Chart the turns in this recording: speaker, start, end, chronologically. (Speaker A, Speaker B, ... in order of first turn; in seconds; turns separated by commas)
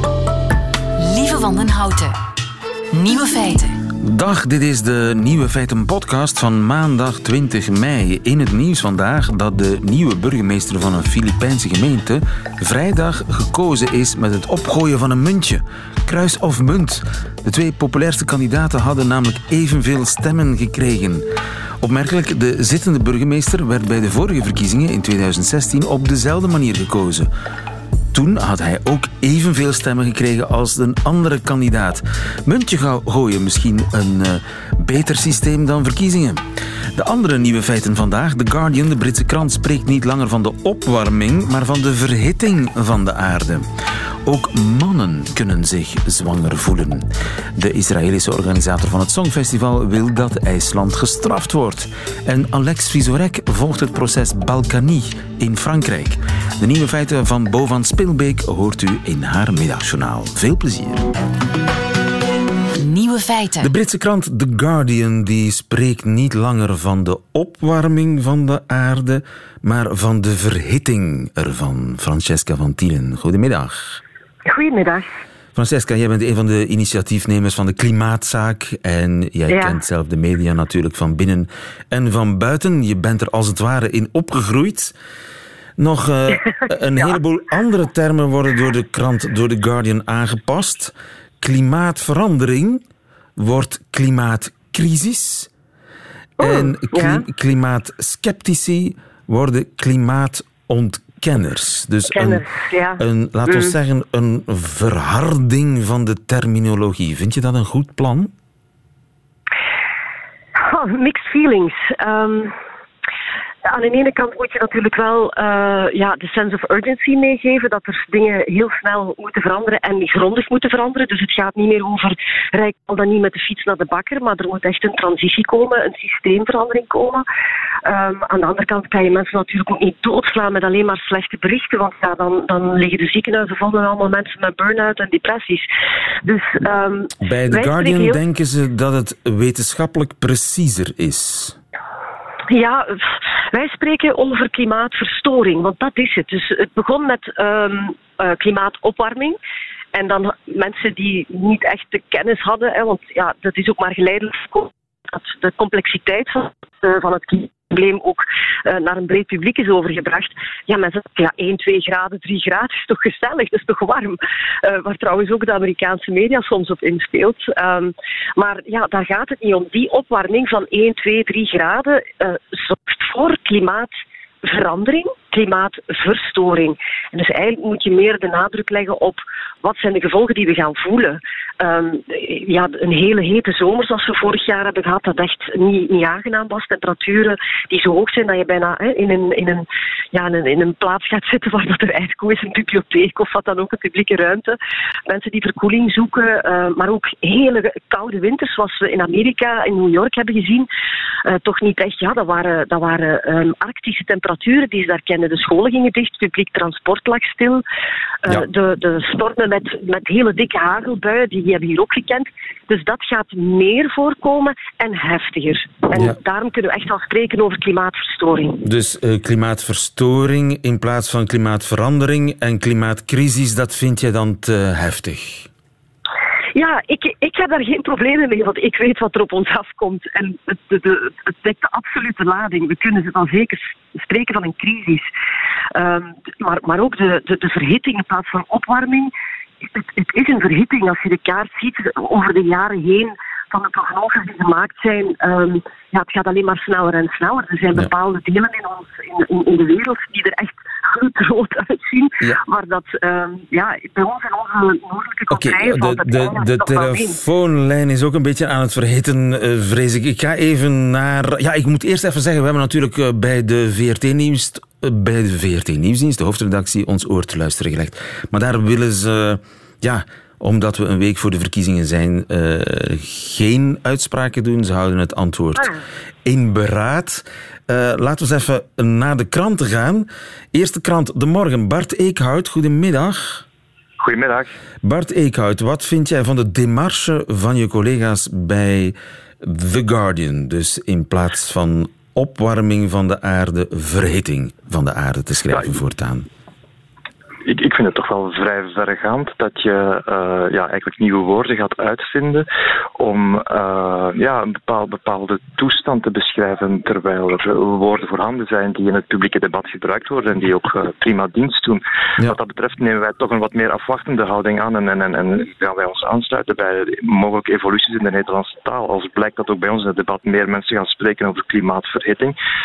Speaker A: 1.0-2.1, Speaker A: 2.9-3.8, Speaker B: 4.0-21.2, Speaker B: 21.8-27.3, Speaker B: 28.1-36.4, Speaker B: 36.9-43.7, Speaker B: 44.2-61.0, Speaker A: 62.8-63.7, Speaker B: 63.6-74.0, Speaker C: 74.5-75.1, Speaker B: 75.5-84.9, Speaker C: 79.5-79.8, Speaker B: 85.8-92.8, Speaker B: 93.4-95.5, Speaker C: 96.4-97.2, Speaker B: 96.4-102.4, Speaker C: 102.1-103.8, Speaker B: 103.0-108.3, Speaker C: 110.6-112.5, Speaker C: 113.7-127.2, Speaker C: 127.8-135.7, Speaker C: 136.2-138.2, Speaker B: 137.2-141.6, Speaker C: 142.5-143.0, Speaker C: 143.5-149.4, Speaker C: 149.9-173.9, Speaker C: 174.4-194.6, Speaker C: 195.1-200.7, Speaker C: 201.2-207.6, Speaker C: 208.2-218.6, Speaker B: 218.6-225.5, Speaker C: 226.6-235.1, Speaker C: 235.8-239.1, Speaker C: 239.6-257.2, Speaker B: 255.3-275.7, Speaker B: 276.2-283.4, Speaker D: 284.0-284.5, Speaker B: 284.8-296.2, Speaker D: 297.4-302.4, Speaker D: 303.0-322.3